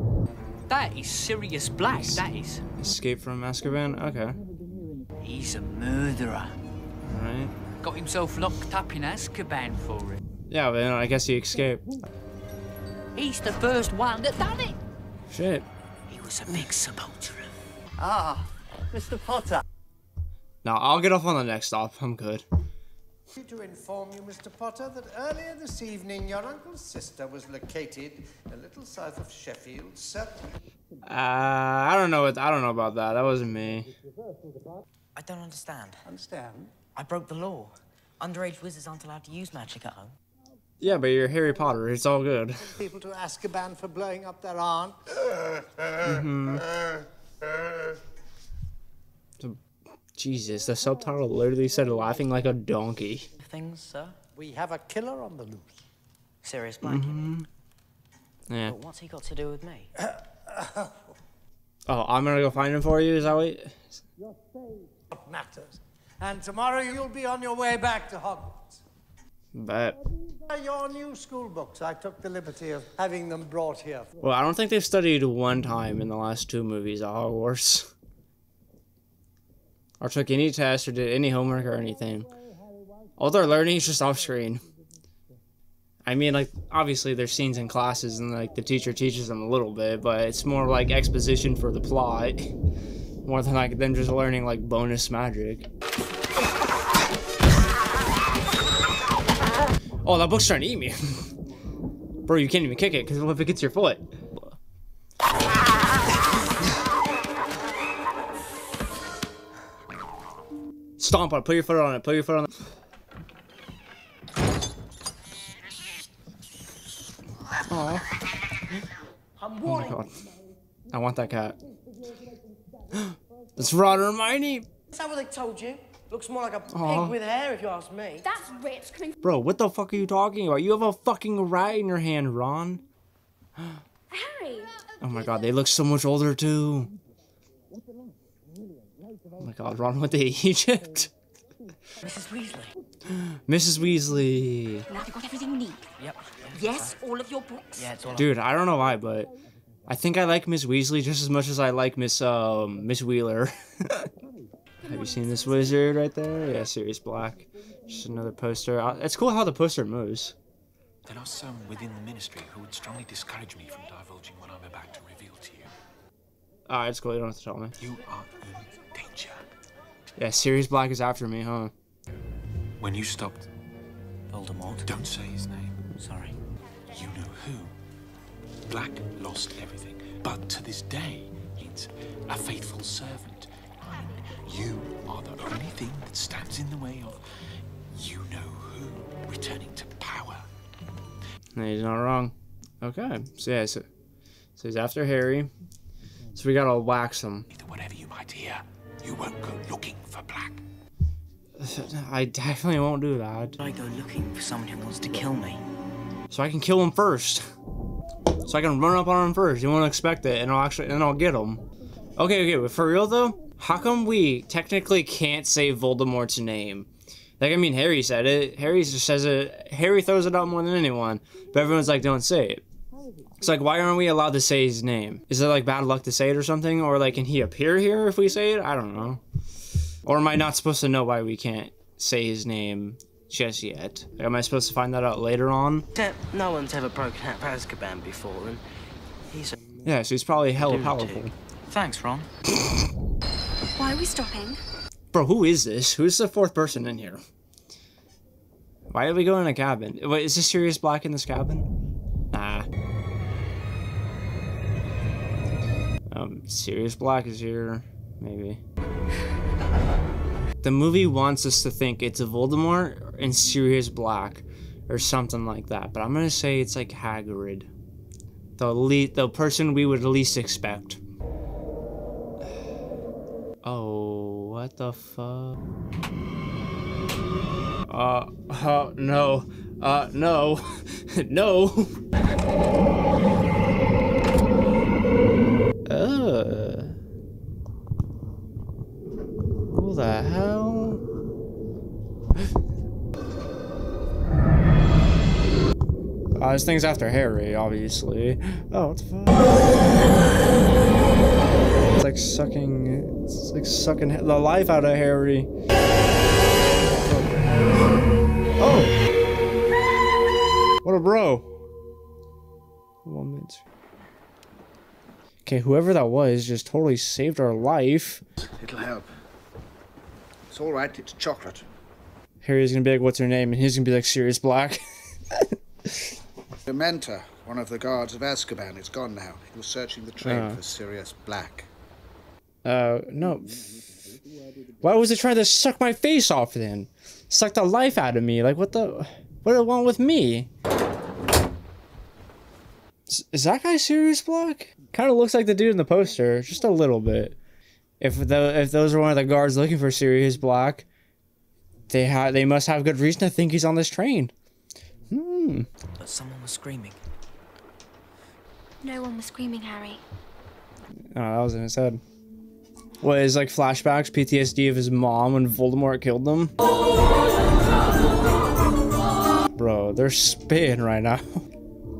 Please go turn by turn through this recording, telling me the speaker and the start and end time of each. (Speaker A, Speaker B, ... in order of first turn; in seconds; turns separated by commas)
Speaker A: 0.7-2.6, Speaker B: 1.9-4.4, Speaker A: 5.2-6.5, Speaker B: 7.1-7.5, Speaker A: 7.8-10.2, Speaker B: 10.5-11.8, Speaker A: 13.2-14.5, Speaker B: 15.3-15.7, Speaker C: 16.1-17.5, Speaker D: 18.0-19.6, Speaker B: 20.6-22.4, Speaker D: 23.3-30.4, Speaker B: 31.1-33.9, Speaker C: 35.1-36.0, Speaker D: 36.0-36.7, Speaker C: 36.9-40.1, Speaker B: 40.8-42.8, Speaker D: 42.7-45.0, Speaker B: 46.0-46.7, Speaker B: 50.1-53.3, Speaker C: 53.4-54.1, Speaker D: 54.3-55.8, Speaker C: 56.4-57.3, Speaker B: 56.8-57.5, Speaker B: 58.5-58.8, Speaker C: 58.6-59.9, Speaker D: 60.5-60.9, Speaker B: 61.9-63.8, Speaker D: 65.1-68.8, Speaker B: 69.5-70.0, Speaker D: 70.5-74.1, Speaker B: 74.2-77.9, Speaker B: 80.0-82.3, Speaker B: 83.2-84.6, Speaker B: 86.0-92.5, Speaker B: 93.2-95.7, Speaker B: 100.0-101.3, Speaker B: 102.2-104.5, Speaker B: 111.0-112.5, Speaker B: 117.7-118.0, Speaker E: 119.4-120.0, Speaker B: 119.6-120.1, Speaker B: 120.9-121.6, Speaker B: 122.9-124.7, Speaker E: 124.9-128.3, Speaker B: 126.7-127.2, Speaker F: 128.2-129.2, Speaker B: 129.2-132.8, Speaker F: 134.1-134.8, Speaker B: 135.0-136.9, Speaker B: 139.4-141.1, Speaker C: 142.0-142.7, Speaker B: 143.1-144.9, Speaker F: 144.9-145.8, Speaker C: 146.0-147.0, Speaker F: 146.6-147.8, Speaker C: 147.8-148.3, Speaker B: 148.1-149.3, Speaker B: 149.9-154.1, Speaker B: 154.8-160.3, Speaker F: 154.8-155.7, Speaker G: 161.0-165.7, Speaker B: 166.7-167.7, Speaker G: 167.8-169.4, Speaker B: 170.2-171.7, Speaker G: 172.8-173.5, Speaker C: 174.3-174.9, Speaker G: 174.8-175.8, Speaker C: 175.9-176.4, Speaker G: 176.9-177.7, Speaker G: 178.7-187.2, Speaker G: 187.9-190.5, Speaker B: 191.6-193.9, Speaker B: 194.6-195.5, Speaker B: 196.3-197.5, Speaker G: 197.5-200.6, Speaker B: 201.6-203.6, Speaker C: 203.6-205.6, Speaker B: 206.3-207.5, Speaker B: 208.4-211.6, Speaker B: 212.2-216.9, Speaker B: 217.4-222.6, Speaker B: 223.4-229.2, Speaker B: 230.0-235.8, Speaker E: 235.9-238.6, Speaker E: 239.3-239.6, Speaker B: 239.8-241.3, Speaker E: 240.9-241.3, Speaker C: 241.7-242.3, Speaker F: 243.8-244.6, Speaker B: 245.1-247.2, Speaker B: 248.9-251.7, Speaker B: 252.3-252.7, Speaker B: 256.1-258.6, Speaker B: 260.6-267.7, Speaker B: 268.6-271.0, Speaker B: 273.6-275.6, Speaker B: 277.9-282.0, Speaker B: 285.9-287.0, Speaker B: 289.7-291.0, Speaker B: 296.4-299.5, Speaker B: 301.9-305.5, Speaker B: 306.9-307.6, Speaker B: 308.6-308.9, Speaker B: 310.8-311.5, Speaker B: 313.0-313.6, Speaker B: 315.4-318.2, Speaker H: 318.4-319.1, Speaker H: 320.5-321.6, Speaker B: 322.4-326.1, Speaker H: 326.6-331.7, Speaker B: 330.2-330.6, Speaker B: 332.6-333.6, Speaker B: 334.8-340.5, Speaker B: 343.1-347.4, Speaker B: 348.0-350.8, Speaker B: 351.9-354.3, Speaker B: 355.1-355.7, Speaker C: 356.0-357.0, Speaker F: 358.8-360.0, Speaker B: 361.1-362.0, Speaker B: 363.0-366.5, Speaker B: 369.5-371.4